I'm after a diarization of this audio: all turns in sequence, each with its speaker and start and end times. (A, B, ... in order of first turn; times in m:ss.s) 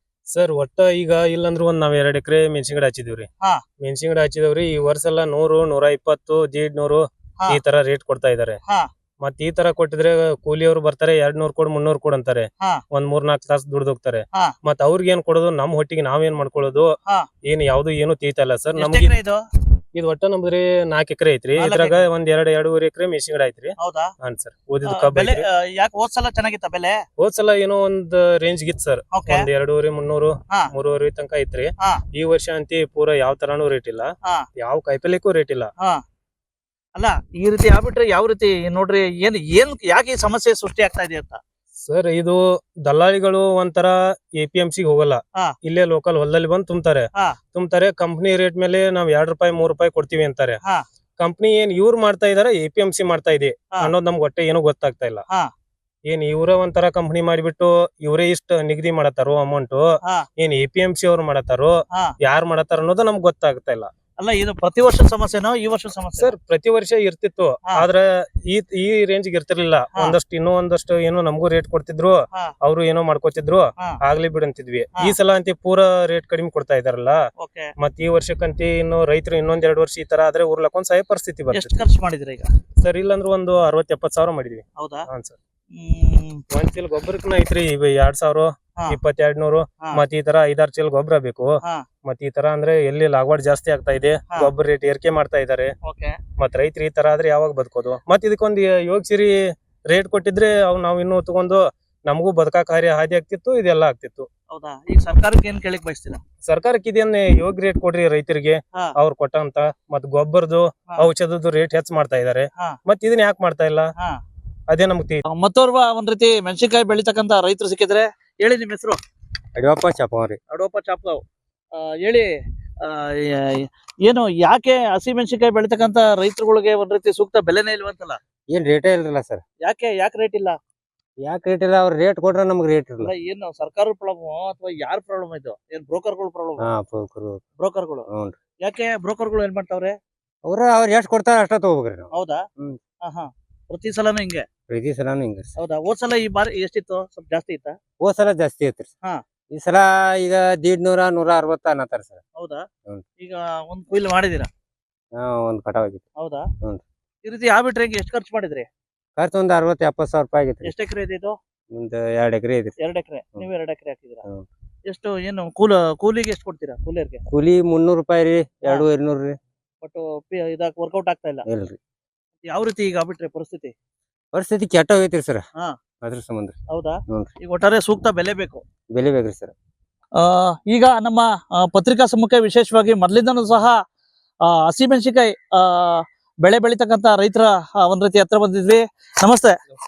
0:00.3-0:03.3 A
0:03.8-0:08.6 A
0:09.2-0:16.9 A
0:17.4-0:19.1 A
0:18.8-0:19.4 B
0:19.9-0:25.4 A
0:21.6-0:22.0 B
0:23.8-0:24.1 B
0:24.9-0:27.0 B
0:27.2-0:35.7 A
0:29.1-0:29.5 B
0:37.0-0:41.4 B
0:41.9-0:50.6 A
0:51.2-0:55.2 A
0:56.1-0:59.9 A
1:00.4-1:03.9 A
1:04.2-1:06.3 B
1:06.2-1:17.2 A
1:17.4-1:17.7 B
1:17.8-1:21.8 A
1:21.5-1:22.5 B
1:22.8-1:25.4 A
1:24.8-1:25.1 B
1:25.7-1:26.4 B
1:26.5-1:35.7 A
1:35.9-1:36.2 B
1:36.4-1:44.3 A
1:44.5-1:46.2 B
1:46.4-1:53.9 A
1:54.7-1:55.2 A
1:55.3-1:59.0 B
1:59.6-2:00.4 C
2:00.5-2:01.2 B
2:01.8-2:02.3 B
2:02.8-2:08.2 B
2:08.5-2:09.4 C
2:09.6-2:10.6 B
2:11.2-2:13.1 C
2:13.0-2:16.6 B
2:16.6-2:17.4 C
2:17.6-2:18.0 B
2:18.1-2:18.4 C
2:18.6-2:20.0 B
2:20.5-2:22.8 C
2:22.1-2:22.4 B
2:23.0-2:24.4 B
2:24.7-2:25.5 C
2:25.6-2:27.8 B
2:28.0-2:28.9 C
2:29.5-2:32.2 C
2:32.4-2:32.7 B
2:33.2-2:34.5 B
2:35.2-2:36.0 C
2:36.2-2:36.5 B
2:37.2-2:38.7 B
2:39.2-2:40.7 C
2:40.6-2:41.4 B
2:41.7-2:42.7 C
2:42.8-2:44.2 B
2:44.9-2:47.2 B
2:47.3-2:49.3 C
2:49.8-2:51.4 B
2:51.5-2:51.8 C
2:52.5-2:53.7 B
2:54.3-2:55.4 C
2:56.0-2:56.6 C
2:56.7-2:58.6 B
2:58.9-2:59.5 C
3:00.2-3:03.8 B
3:04.5-3:09.6 B